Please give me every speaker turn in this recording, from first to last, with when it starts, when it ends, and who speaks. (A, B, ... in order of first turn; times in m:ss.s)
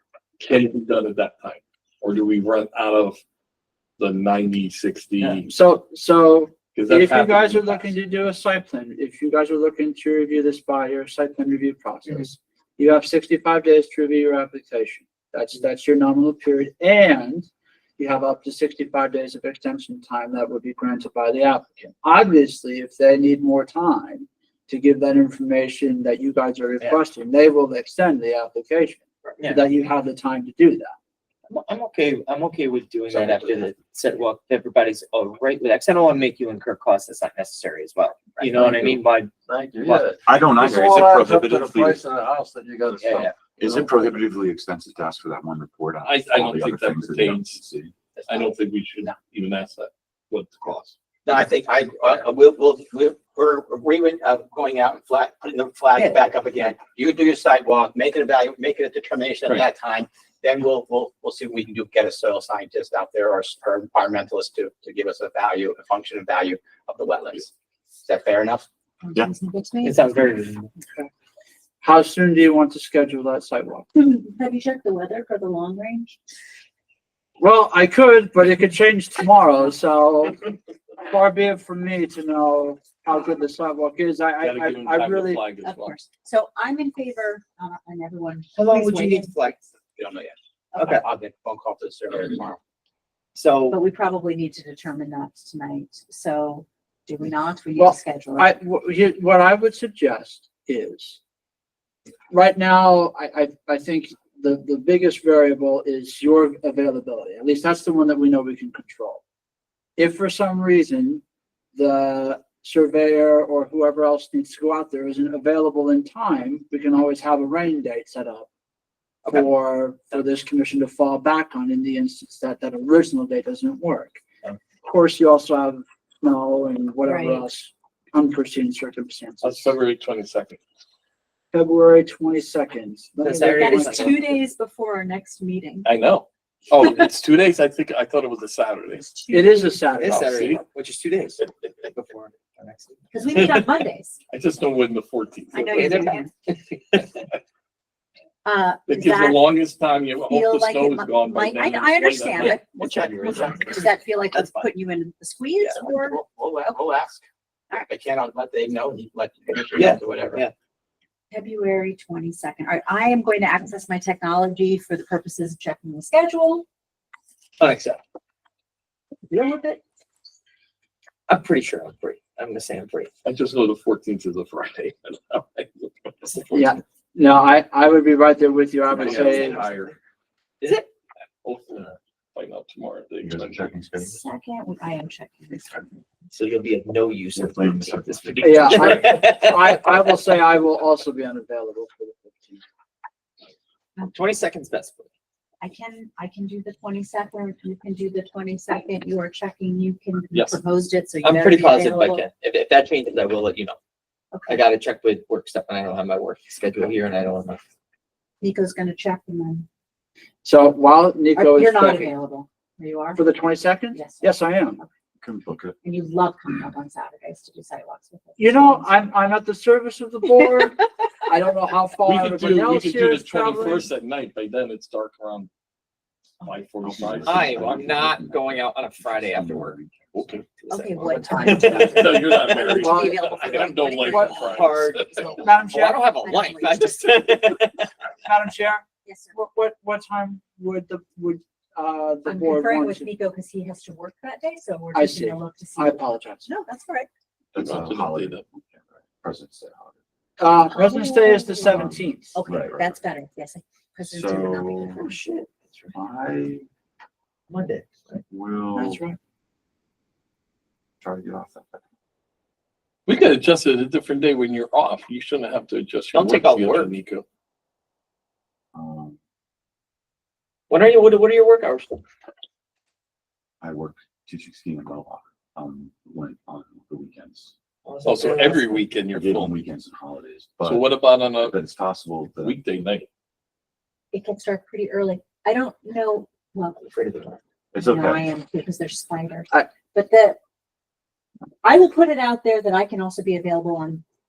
0:00.4-0:03.2 A
0:04.0-0:05.5 A
0:05.4-0:30.9 B
0:06.7-0:07.9 A
0:29.3-0:29.6 C
0:31.5-0:39.3 C
0:38.6-0:43.9 D
0:39.8-0:40.1 C
0:40.2-0:42.0 E
0:43.0-0:43.3 C
0:43.6-0:47.9 E
0:46.0-0:47.6 A
0:48.3-0:50.9 A
0:51.2-1:07.5 F
1:08.0-1:08.6 F
1:09.0-1:10.0 G
1:09.8-1:10.7 C
1:10.8-1:11.1 G
1:11.8-1:13.9 B
1:13.9-1:16.2 G
1:17.4-1:25.5 B
1:24.4-1:26.0 A
1:25.6-1:29.6 G
1:28.5-1:29.6 C
1:30.0-1:32.6 F
1:30.8-1:31.0 C
1:33.3-1:33.8 C
1:33.7-1:38.5 G
1:37.8-1:41.2 B
1:42.3-1:49.2 B
1:50.0-1:51.2 B
1:51.7-1:58.5 B
1:59.2-2:04.2 B
2:04.8-2:09.7 B
2:07.0-2:07.4 G
2:09.4-2:10.6 A
2:11.5-2:14.4 B
2:13.2-2:14.1 C
2:13.5-2:15.9 G
2:15.8-2:19.2 A
2:19.0-2:19.9 G
2:19.3-2:20.3 B
2:20.0-2:23.0 C
2:20.0-2:20.6 A
2:23.1-2:24.2 G
2:24.3-2:25.7 A
2:25.5-2:26.3 G
2:25.6-2:27.0 C
2:28.4-2:29.4 G
2:28.9-2:33.4 A
2:30.3-2:36.2 G
2:32.7-2:33.8 F
2:32.8-2:34.7 C
2:35.7-2:37.2 F
2:37.8-2:40.4 F
2:39.8-2:40.5 C
2:41.3-2:46.6 G
2:47.6-2:48.0 C
2:49.3-2:49.8 C
2:51.3-2:53.1 C
2:53.2-2:56.7 A
2:56.5-2:59.8 B
2:59.0-2:59.9 A
2:59.0-2:59.6 C
3:00.6-3:00.9 C
3:01.4-3:03.7 A
3:03.2-3:04.2 E
3:03.9-3:06.0 G
3:06.3-3:09.7 C
3:07.3-3:09.0 E
3:08.4-3:12.6 B
3:14.0-3:15.1 C
3:15.6-3:22.2 G
3:20.3-3:20.6 A
3:21.2-3:23.8 C
3:24.3-3:24.6 G
3:24.5-3:27.6 C
3:28.4-3:29.7 G
3:30.4-3:32.1 B
3:31.3-3:33.2 G
3:33.2-3:34.8 B
3:33.9-3:34.9 G
3:35.2-3:35.8 E
3:35.8-3:39.0 G
3:38.4-3:43.9 B
3:42.0-3:45.5 A
3:46.4-3:47.5 A
3:46.8-3:50.4 E
3:47.2-3:49.8 C
3:50.1-3:50.4 A
3:50.6-3:52.8 C
3:50.7-3:55.4 G
3:51.0-3:51.9 E
3:51.3-3:53.3 B
3:51.8-3:55.3 A
3:54.0-3:57.9 C
3:54.0-3:54.4 B
3:55.4-3:56.0 B
3:56.2-3:57.4 G
3:58.2-4:03.1 B
3:59.0-3:59.4 G
4:02.2-4:07.1 G
4:04.9-4:06.5 B
4:07.5-4:10.0 E
4:07.6-4:08.4 A
4:10.4-4:12.4 B
4:10.7-4:15.2 G
4:11.7-4:13.0 E
4:14.0-4:15.1 E
4:15.0-4:15.9 C
4:15.9-4:16.6 E
4:17.5-4:18.2 C
4:18.3-4:19.0 E
4:18.7-4:19.2 B
4:21.0-4:21.8 E
4:23.1-4:27.2 A
4:26.1-4:26.9 C
4:28.7-4:29.2 E
4:30.7-4:32.0 C
4:33.6-4:37.5 E
4:37.8-4:38.8 C
4:38.0-4:39.6 A
4:39.1-4:42.6 E
4:40.6-4:41.6 A
4:42.4-4:43.1 A
4:44.1-4:46.9 G
4:46.8-4:47.4 C
4:47.7-4:48.3 E
4:47.8-4:50.4 G
4:51.6-4:54.0 G